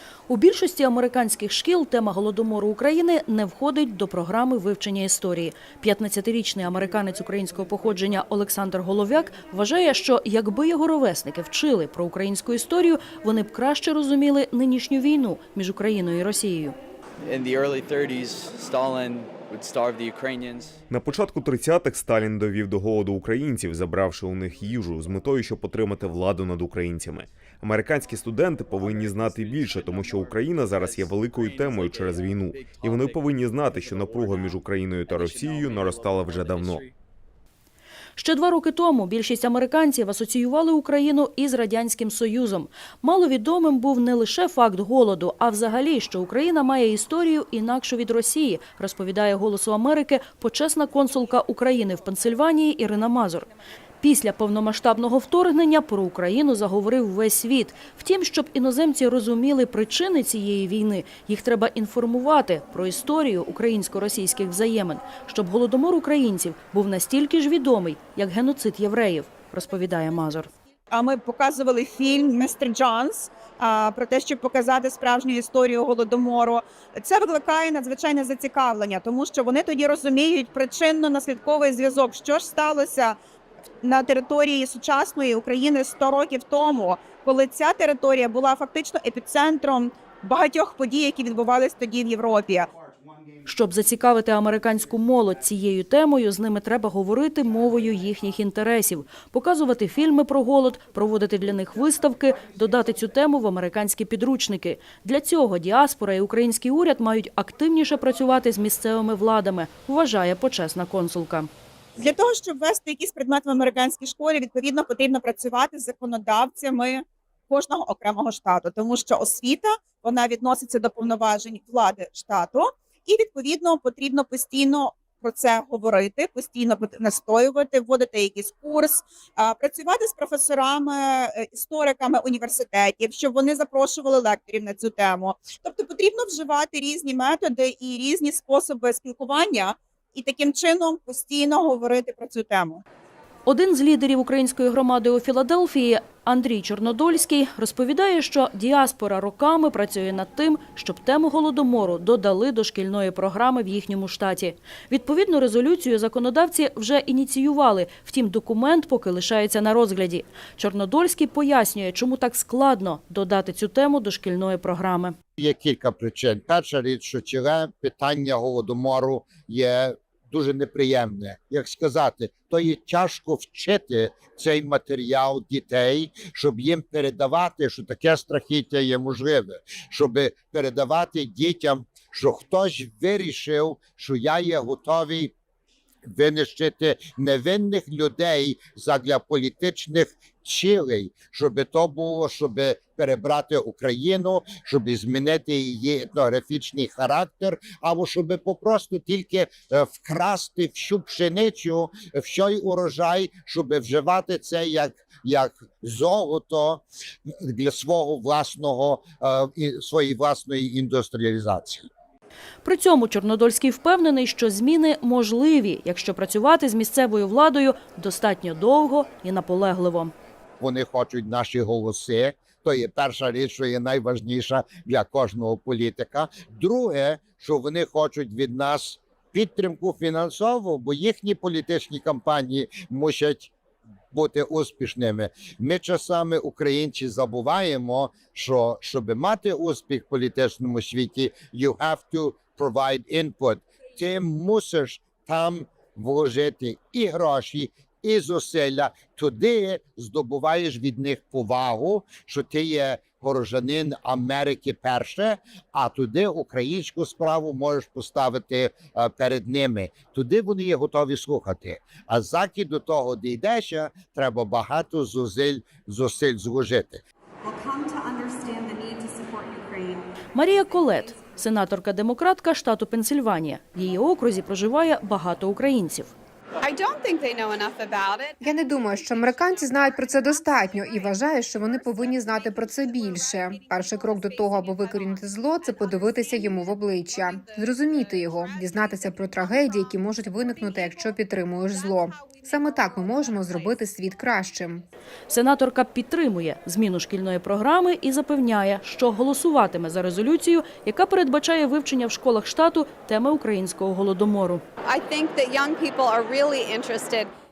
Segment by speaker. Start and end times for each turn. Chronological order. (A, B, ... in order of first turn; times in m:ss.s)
0:00.3-0:16.8 A
0:17.2-0:20.8 B
0:20.9-0:36.8 C
0:28.7-0:36.9 B
0:38.2-0:53.5 A
0:54.0-1:10.5 A
1:10.9-1:23.2 D
1:23.8-1:32.7 D
1:33.5-1:51.5 A
1:52.0-2:22.8 D
2:23.5-2:45.2 A
2:45.4-3:05.3 E
3:06.1-3:31.8 E
3:32.6-3:40.1 A
3:40.6-3:53.5 E
3:54.1-4:27.0 E
4:27.4-4:30.0 F
4:30.3-4:36.1 A
4:36.6-4:38.4 F
4:38.4-4:54.8 G
4:55.3-5:04.6 A
5:04.8-5:07.3 F